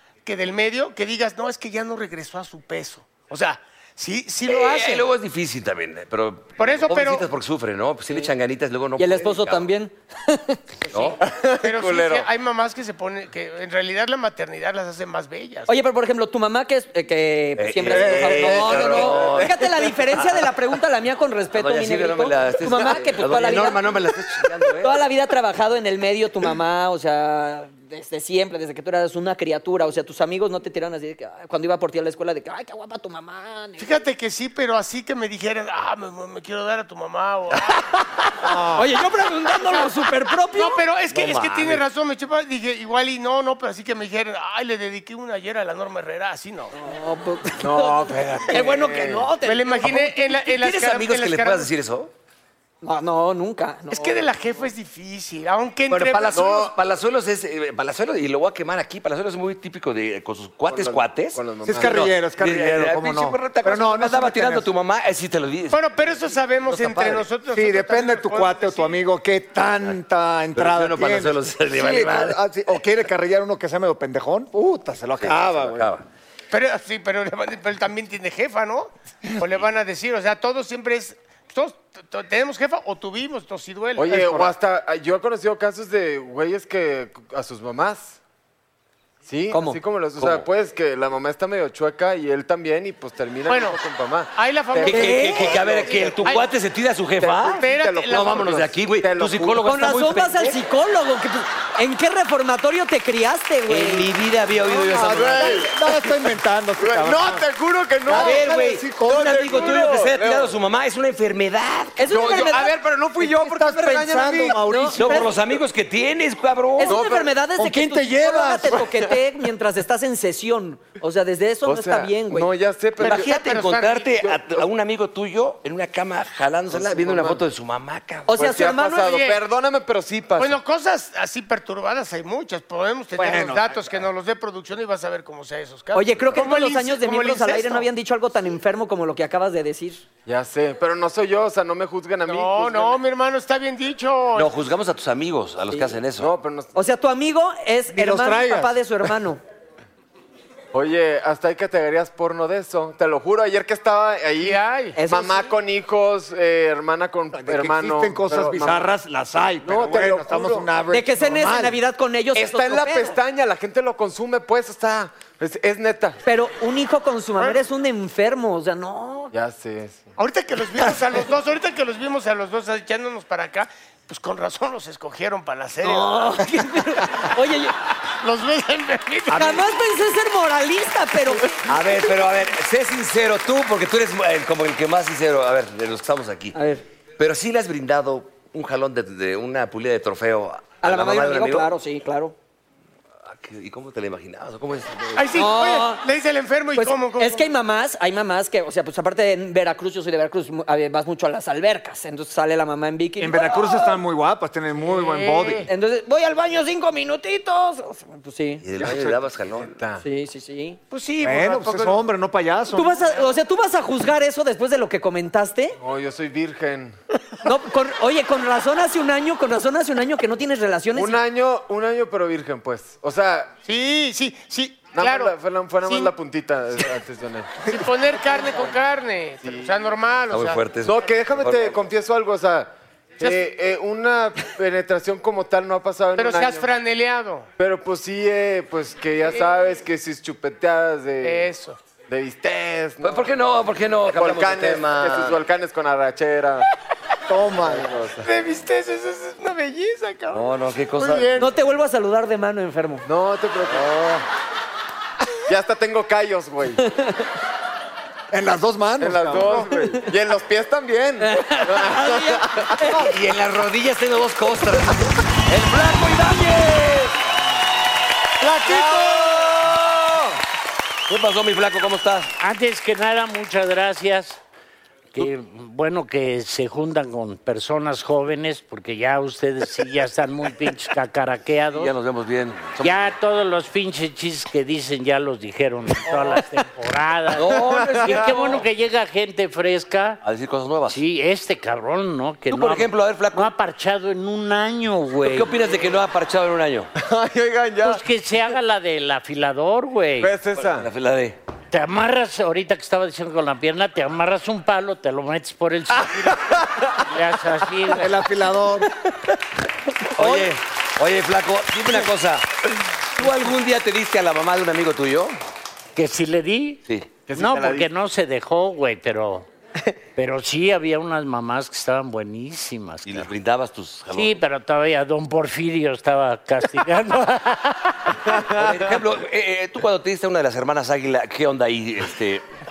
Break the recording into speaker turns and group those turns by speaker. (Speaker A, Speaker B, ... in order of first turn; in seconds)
Speaker A: 0.2-5.1, 6.6-7.2, 11.6-15.7, 33.8-37.8, 39.7-39.9, 40.5-46.7, 49.4-51.7, 53.9-56.7, 65.7-69.0, 76.5-84.5, 93.5-93.8, 94.3-95.5, 97.5-98.4, 123.0-124.1, 130.4-137.9, 142.2-144.5, 154.4-155.0, 170.2-176.4, 178.2-179.7, 195.2-197.5, 204.9-205.7, 210.9-212.0, 223.6-226.1, 227.6-230.6, 236.2-237.5, 241.2-241.8, 248.2-251.5, 268.4-269.4
Speaker B: 4.5-9.7, 10.9-11.2, 17.6-20.4, 21.5-25.0, 41.1-41.8, 49.8-52.1, 55.9-65.8, 66.7-67.3, 70.5-72.4, 75.2-76.0, 90.2-90.5, 94.8-100.6, 103.7-105.6, 108.1-112.1, 115.0-117.0, 123.0-128.3, 144.3-146.3, 181.7-186.6, 187.2-191.7, 193.2-195.4, 208.6-209.8, 230.3-231.8, 243.0-245.4, 250.3-251.4, 263.1-267.1, 268.6-270.1, 271.1-272.3, 281.7-283.1, 287.3-288.6, 290.2-291.0, 292.5-293.5, 295.2-296.9, 300.6-301.4, 310.1-315.4, 323.1-324.4, 328.6-332.4
Speaker C: 9.0-11.1, 15.7-23.9, 24.8-34.0, 38.5-40.8, 46.7-50.3, 52.8-54.3, 89.5-89.8, 99.6-104.1, 108.2-108.7, 112.0-112.7, 114.6-115.3, 116.8-122.5, 128.3-129.3, 135.9-140.0, 146.7-149.4, 154.9-155.5, 160.9-163.2, 166.2-169.3, 175.8-177.7, 179.3-181.6, 186.5-186.8, 190.8-192.3, 195.3-196.0, 196.7-203.9, 205.7-208.6, 210.0-210.8, 212.7-215.8, 217.4-221.2, 251.4-253.0, 256.8-257.2, 261.2-263.1
Speaker D: 11.2-12.3, 18.9-19.5, 47.6-49.3, 56.3-56.7, 60.7-62.0, 84.0-88.2, 89.2-96.3, 97.2-99.6, 104.9-105.7, 106.8-108.5, 109.1-110.5, 112.1-114.6, 116.8-117.3, 121.6-123.3, 124.2-124.6, 126.7-127.4, 128.3-130.6, 140.2-143.0, 146.2-146.7, 150.7-158.9, 159.6-160.7, 162.3-166.2, 169.3-170.1, 208.8-210.0, 215.8-217.0, 220.9-223.5, 224.9-227.8, 229.4-229.9, 230.8-236.7, 237.6-241.5, 242.1-243.3, 244.1-246.7, 247.6-248.3, 253.0-254.1, 255.5-256.8, 259.0-263.0, 268.7-269.3, 287.5-288.6, 297.0-298.0, 300.2-300.9, 306.2-307.0, 317.3-317.9, 328.2-329.0
Speaker E: 17.9-19.3, 61.6-64.7, 67.5-75.9, 104.7-107.5, 108.0-109.8, 113.2-115.3, 117.6-118.9, 133.2-133.7, 147.9-148.8, 157.3-161.8, 203.2-205.7, 211.2-213.0, 247.3-248.0, 253.7-254.2, 258.3-259.7, 308.0-308.9
Speaker F: 272.4-274.4, 275.1-281.9, 282.8-290.2, 290.9-295.7, 297.8-300.3, 301.7-306.4, 307.1-308.1, 315.9-316.8, 317.3-319.5, 320.1-323.3, 324.1-328.2